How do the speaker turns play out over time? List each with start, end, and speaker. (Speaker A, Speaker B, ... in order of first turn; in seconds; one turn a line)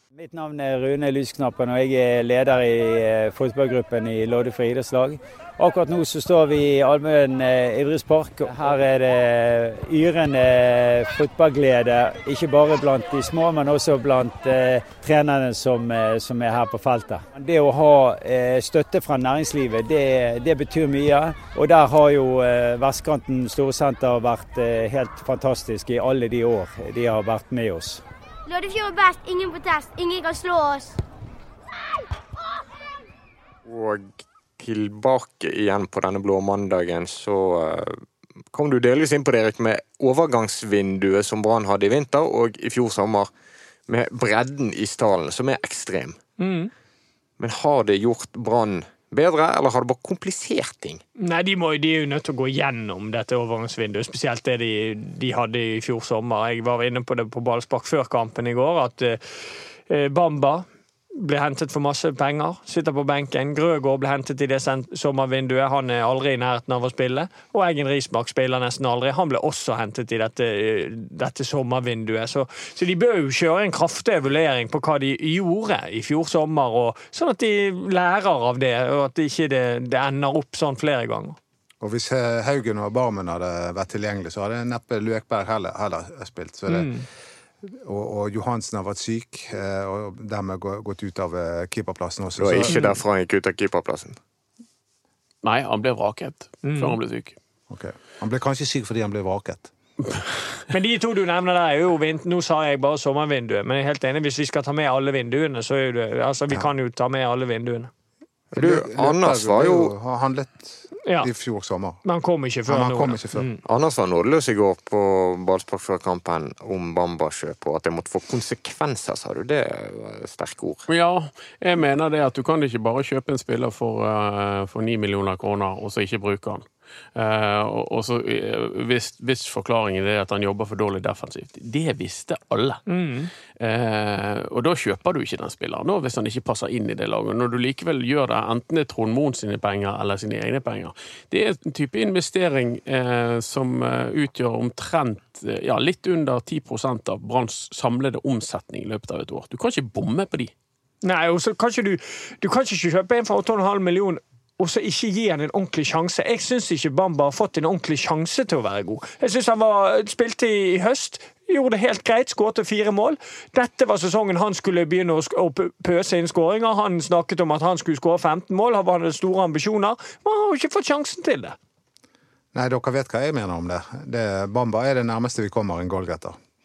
Speaker A: 0.1-28.0
Speaker B: 28.4-31.0
Speaker C: 33.6-38.0
Speaker C: 38.5-43.3
Speaker C: 43.9-46.2
Speaker D: 46.4-46.7
Speaker C: 47.4-51.0
Speaker D: 51.2-59.2
Speaker D: 59.9-81.4
Speaker E: 81.8-86.9
Speaker D: 86.7-87.0
Speaker E: 87.6-92.8
Speaker C: 92.4-94.2
Speaker F: 95.4-97.3
Speaker D: 96.6-97.0
Speaker E: 97.7-99.7
Speaker D: 100.7-107.9
Speaker E: 108.5-112.0
Speaker C: 108.5-109.9
Speaker D: 112.0-113.6
Speaker E: 112.7-113.5
Speaker C: 113.6-120.9
Speaker F: 120.9-126.6
Speaker F: 127.2-132.8
Speaker D: 132.9-133.3
Speaker F: 133.6-150.5
Speaker D: 151.0-171.6
Speaker E: 172.5-176.4